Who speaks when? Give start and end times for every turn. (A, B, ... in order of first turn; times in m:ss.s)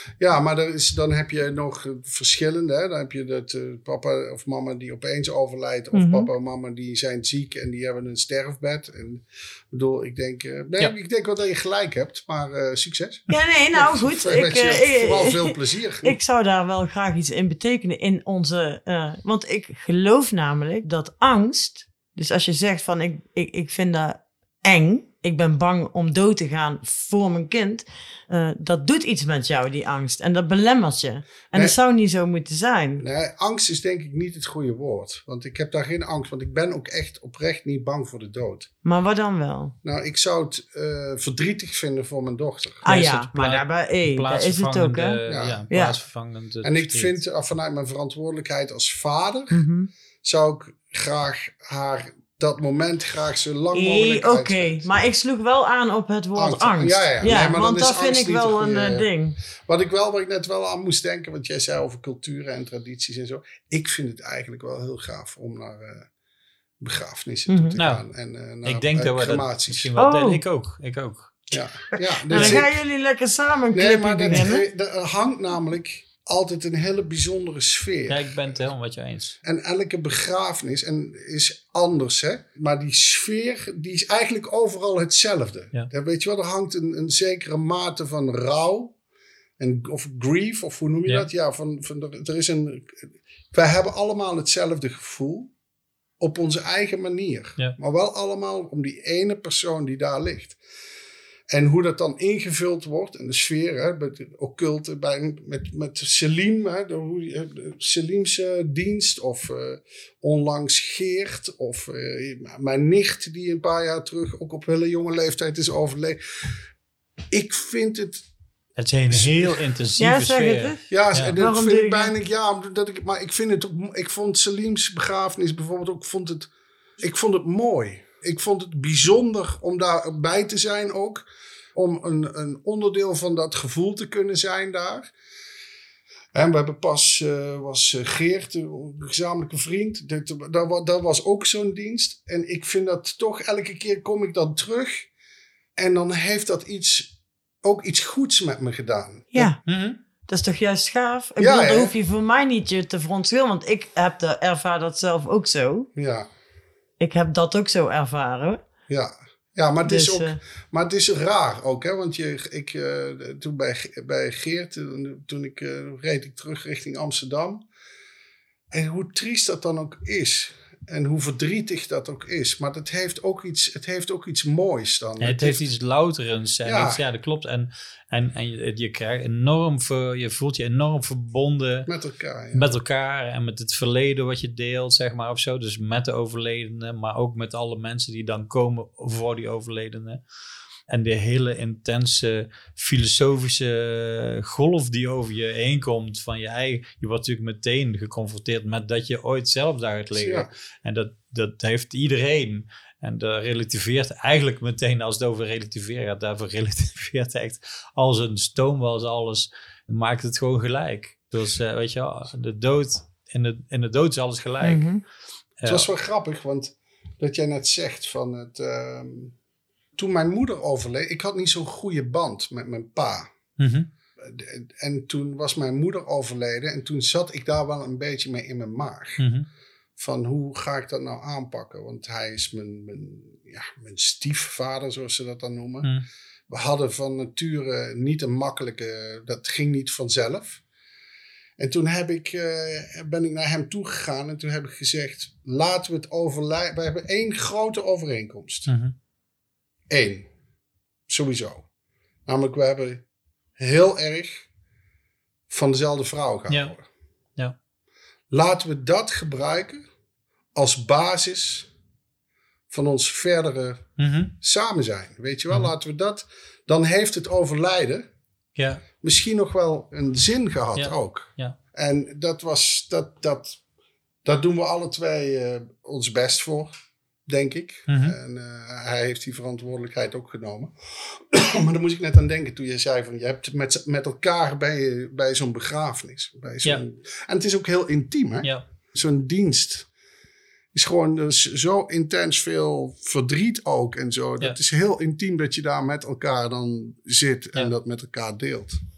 0:00.2-0:16.2 A
0:05.9-0:06.3 B
0:13.3-0:33.0 B
0:33.0-0:38.7 A
0:38.8-0:39.7 B
0:39.8-0:42.9 A
0:42.8-0:46.0 B
0:42.8-0:47.2 C
0:45.3-0:45.8 A
0:46.6-0:49.6 A
0:49.5-0:49.9 B
0:50.2-0:55.0 A
0:53.7-0:59.4 B
0:56.4-0:59.1 A
0:59.7-1:06.1 A
1:06.8-1:09.9 A
1:07.5-1:07.8 B
1:07.8-1:08.0 C
1:08.6-1:11.5 C
1:10.0-1:10.4 B
1:11.5-1:12.8 A
1:11.9-1:14.6 B
1:12.3-1:12.6 C
1:13.7-1:18.4 A
1:18.1-1:19.4 C
1:19.4-1:29.0 A
1:29.6-1:35.5 A
1:36.2-1:40.6 A
1:41.5-1:56.5 A
1:57.3-1:58.2 A
1:58.8-2:01.4 C
1:59.1-1:59.6 A
2:00.0-2:00.8 B
2:00.9-2:15.1 A
2:01.4-2:02.1 B
2:16.3-2:25.1 A
2:25.8-2:29.5 A
2:29.3-2:29.6 B
2:29.6-2:30.0 C
2:30.3-2:35.9 B
2:31.4-2:32.0 A
2:36.0-2:36.3 A
2:37.0-2:38.6 B
2:38.9-2:47.7 A
2:39.8-2:40.4 B
2:48.7-2:55.6 A
2:55.2-3:01.9 C
2:56.6-2:57.0 A
3:01.9-3:02.7 A
3:02.5-3:10.2 C
3:10.9-3:34.9 C
3:20.2-3:20.5 A
3:34.6-3:35.0 B
3:35.6-3:35.9 C
3:35.6-3:39.4 A
3:40.0-3:43.3 A
3:43.6-3:43.9 C
3:44.2-3:49.2 A
3:49.2-3:49.5 C
3:50.0-3:55.9 A
3:56.5-4:00.6 A
4:01.6-4:08.7 A
4:08.7-4:09.0 C
4:09.9-4:10.3 A
4:11.1-4:11.7 A
4:12.3-4:13.0 A
4:13.6-4:14.5 A
4:15.5-4:16.8 A
4:18.3-4:19.8 A
4:20.6-4:21.7 A
4:22.7-4:23.9 A
4:24.0-4:24.3 C
4:24.4-4:28.1 A
4:28.6-4:28.8 C
4:29.0-4:33.6 A
4:30.8-4:31.6 C
4:34.2-4:36.7 A
4:37.3-4:49.9 A
4:37.9-4:38.2 C
4:50.7-4:58.8 A